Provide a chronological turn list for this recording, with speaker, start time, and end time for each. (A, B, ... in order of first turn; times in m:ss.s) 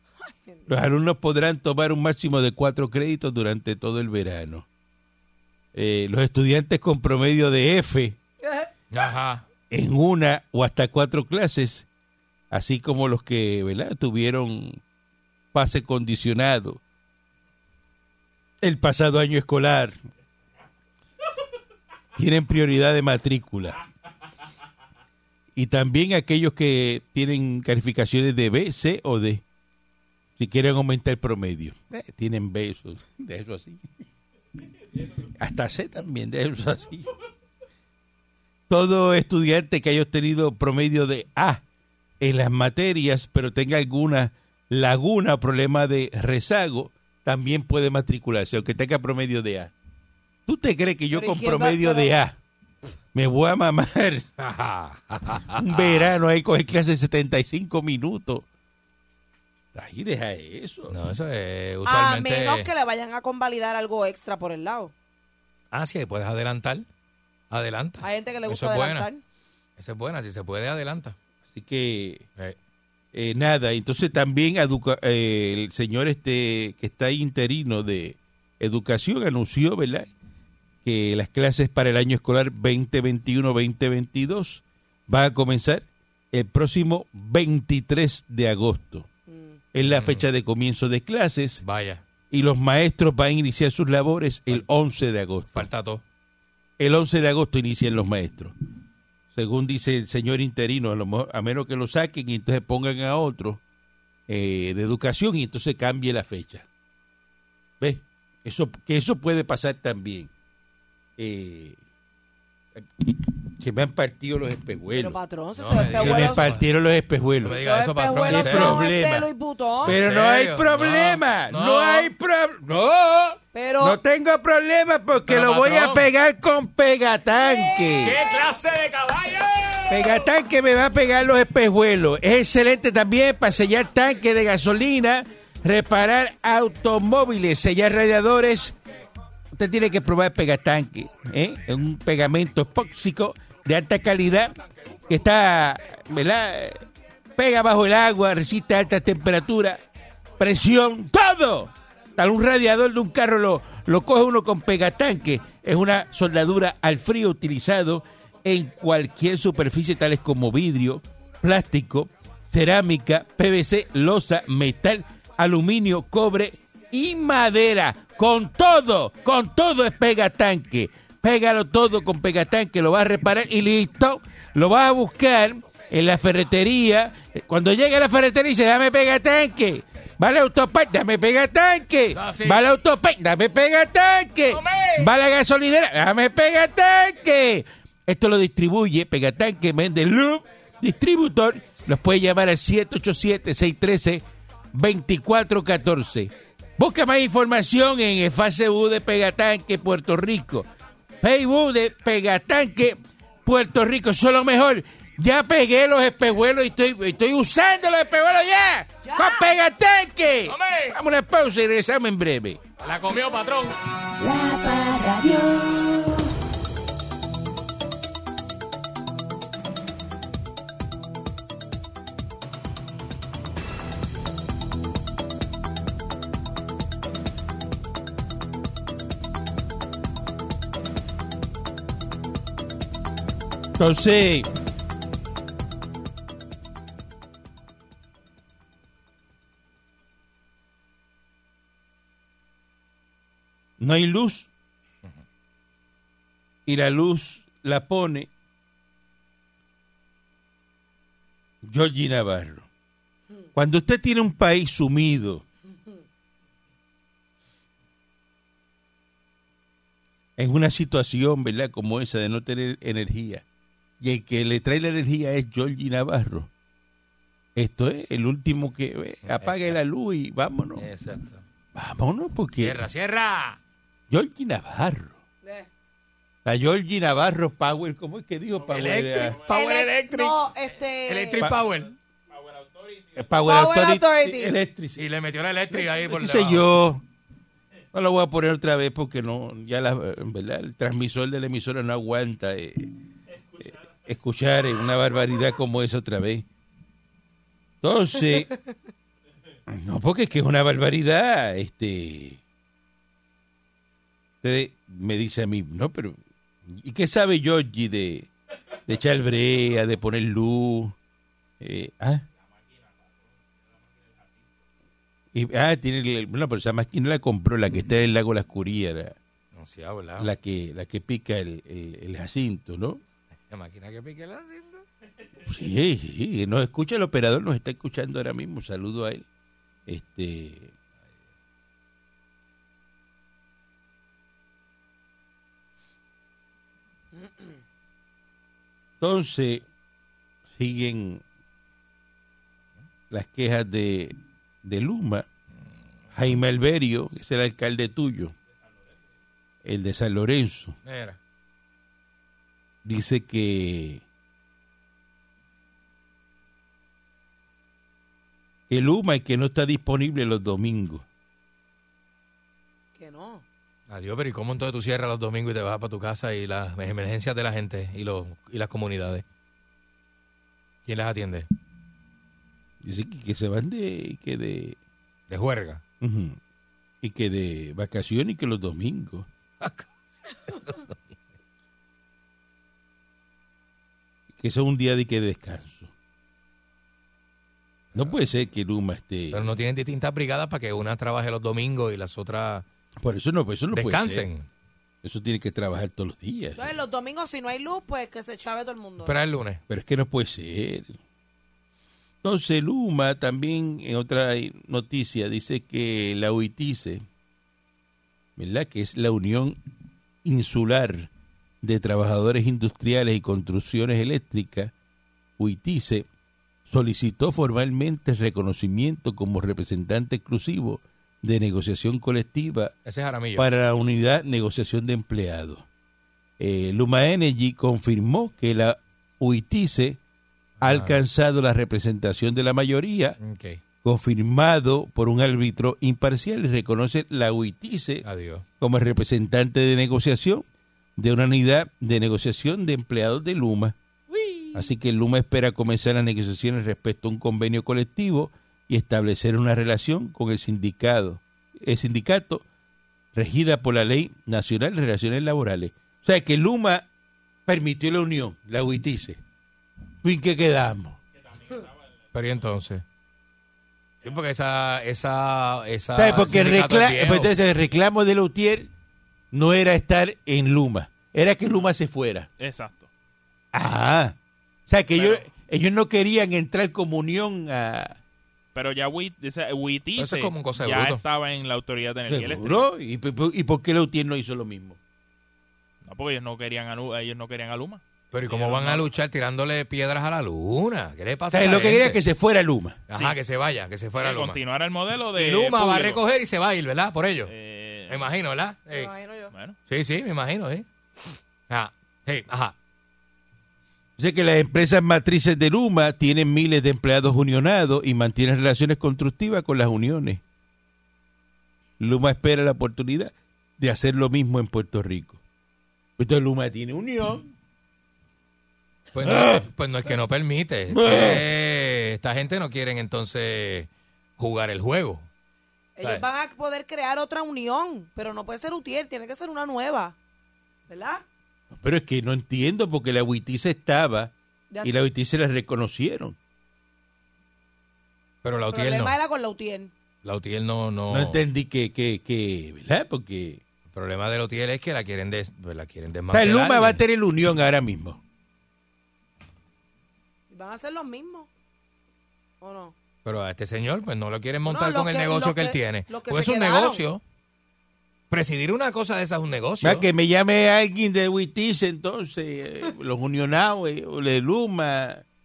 0:00.2-0:00.7 A
0:00.7-0:04.6 B
0:05.7-0:08.2 B
0:08.9-0:09.4 C
0:09.7-0:11.9 B
0:12.5-0:14.8 B
0:15.5-0:16.8 B
0:18.6-0:20.0 B
0:22.2-0:23.8 B
0:25.5-0:29.4 B
0:30.4-0:33.9 B
0:35.4-0:37.1 B
0:38.7-0:41.6 B
0:42.2-0:49.7 B
0:50.5-0:52.4 B
0:51.1-0:52.1 A
0:53.1-0:54.2 B
0:54.4-0:56.1 C
0:55.5-0:58.4 B
0:59.7-1:01.0 B
1:00.9-1:02.7 C
1:01.8-1:04.9 A
1:05.7-1:06.8 C
1:07.5-1:09.1 C
1:08.0-1:09.2 A
1:09.8-1:11.2 C
1:11.5-1:12.2 B
1:13.1-1:20.1 B
1:20.8-1:29.1 B
1:29.3-1:29.6 A
1:29.7-1:31.6 B
1:29.8-1:30.2 C
1:31.6-1:32.0 C
1:32.3-1:35.7 B
1:35.5-1:36.0 C
1:36.8-1:38.5 B
1:39.3-1:43.6 B
1:44.3-1:46.6 B
1:47.8-1:50.3 B
1:51.2-1:51.8 B
1:52.7-1:55.2 B
1:54.9-1:56.4 A
1:55.6-1:56.6 C
1:55.8-1:57.6 B
1:57.4-1:58.8 C
1:57.4-2:00.0 A
1:58.3-1:59.3 B
1:59.8-2:08.2 B
1:59.8-2:02.1 C
2:03.5-2:04.0 A
2:05.2-2:06.1 C
2:07.8-2:10.2 C
2:09.9-2:18.8 B
2:19.5-2:24.5 B
2:25.1-2:26.8 B
2:27.4-2:29.8 B
2:30.4-3:20.7 B
3:02.1-3:02.6 C
3:04.5-3:05.1 C
3:21.2-3:32.6 B
3:29.0-3:29.5 A
3:30.5-3:31.0 C
3:32.8-3:33.8 C
3:34.2-3:36.3 D
3:53.8-3:54.5 B
4:03.8-4:04.5 B
4:06.6-4:08.3 B
4:11.6-4:12.7 B
4:13.5-4:15.4 B
4:20.4-4:23.4 B
4:24.0-4:26.5 B
4:27.6-4:30.8 B
4:29.3-4:29.8 C
4:30.8-4:31.4 C
4:31.7-4:32.8 B
4:32.6-4:33.6 C
4:34.1-4:35.2 B
4:35.4-4:35.7 A
4:36.4-4:39.4 B
4:38.7-4:40.4 C
4:39.5-4:41.5 A
4:41.0-4:41.9 C
4:42.3-4:43.2 E
4:43.2-4:45.0 B
4:43.4-4:44.6 A
4:45.0-4:46.6 C
4:45.7-4:47.0 B
4:47.9-4:52.9 B
4:54.0-4:56.4 B
4:57.8-4:58.5 B
4:59.7-5:02.4 B
5:04.4-5:08.3 B
5:08.8-5:11.0 B
5:11.6-5:12.2 B
5:12.6-5:14.4 E
5:15.3-5:19.2 B
5:19.5-5:20.3 C
5:20.2-5:23.0 B
5:23.5-5:24.8 C
5:25.4-5:29.2 B
5:29.9-5:30.7 B
5:39.0-5:39.6 B
5:40.5-5:41.2 B
5:43.1-5:45.3 B
5:46.1-5:48.3 B
5:49.6-5:50.7 B
5:50.8-5:51.2 C
5:52.8-5:54.0 B
5:58.7-6:01.0 B
6:03.0-6:03.4 A
6:03.9-6:09.2 C
6:10.8-6:11.5 C
6:12.8-6:14.8 B
6:15.3-6:15.8 C
6:16.0-6:16.4 B
6:17.0-6:19.3 B
6:19.6-6:20.9 C
6:24.3-6:25.9 B
6:27.9-6:29.5 B
6:29.3-6:32.6 C
6:33.0-6:34.2 B
6:33.7-6:34.5 C
6:35.0-6:36.7 B
6:36.6-6:39.1 A
6:39.0-6:39.6 C
6:39.7-6:41.0 B
6:42.2-6:47.0 B
6:48.4-6:49.6 B
6:50.2-6:51.1 B
6:51.6-6:54.7 B
6:55.4-6:56.1 B
6:56.7-7:02.7 B
7:02.8-7:03.4 C
7:03.4-7:05.6 B
7:06.4-7:10.0 B
7:10.6-7:11.0 C
7:10.6-7:13.2 B
7:13.2-7:13.6 C
7:13.8-7:18.0 B
7:18.0-7:18.4 C
7:18.6-7:20.4 B
7:21.0-7:23.8 B
7:24.5-7:32.4 B
7:33.1-7:36.9 B
7:37.4-7:39.2 B
7:40.0-7:41.0 B
7:41.3-7:41.7 E
7:42.1-7:42.8 C
7:44.0-7:47.3 C
7:45.9-7:48.7 B
7:49.3-7:52.3 B
7:52.4-7:52.9 E
7:53.5-7:54.2 B
7:54.7-7:58.0 B
7:54.9-7:55.2 E
7:58.5-8:02.6 E
8:00.0-8:01.0 C
8:02.1-8:04.8 B
8:05.8-8:08.9 E
8:08.1-8:12.0 C
8:11.3-8:12.8 B
8:12.9-8:14.4 C
8:14.0-8:16.0 E
8:15.1-8:17.3 C
8:17.2-8:18.1 E
8:17.9-8:18.9 C
8:18.7-8:19.3 A
8:19.3-8:19.6 E
8:19.7-8:20.6 C
8:21.5-8:22.5 C
8:24.0-8:30.2 B
8:31.8-8:35.2 B
8:36.0-8:37.3 B
8:38.9-8:45.1 C
8:39.0-8:39.4 B
8:40.7-8:41.2 B
8:45.8-8:50.0 A
8:50.7-8:51.0 A
8:51.5-8:56.2 B
8:58.2-8:58.9 C
8:58.5-8:59.7 A
9:00.0-9:01.2 C
9:00.9-9:03.4 B
9:03.7-9:06.8 C
9:06.1-9:08.0 B
9:10.3-9:11.3 A
9:12.4-9:12.7 A
9:13.0-9:17.0 C
9:14.4-9:16.8 A
9:18.1-9:19.8 C
9:19.6-9:25.0 B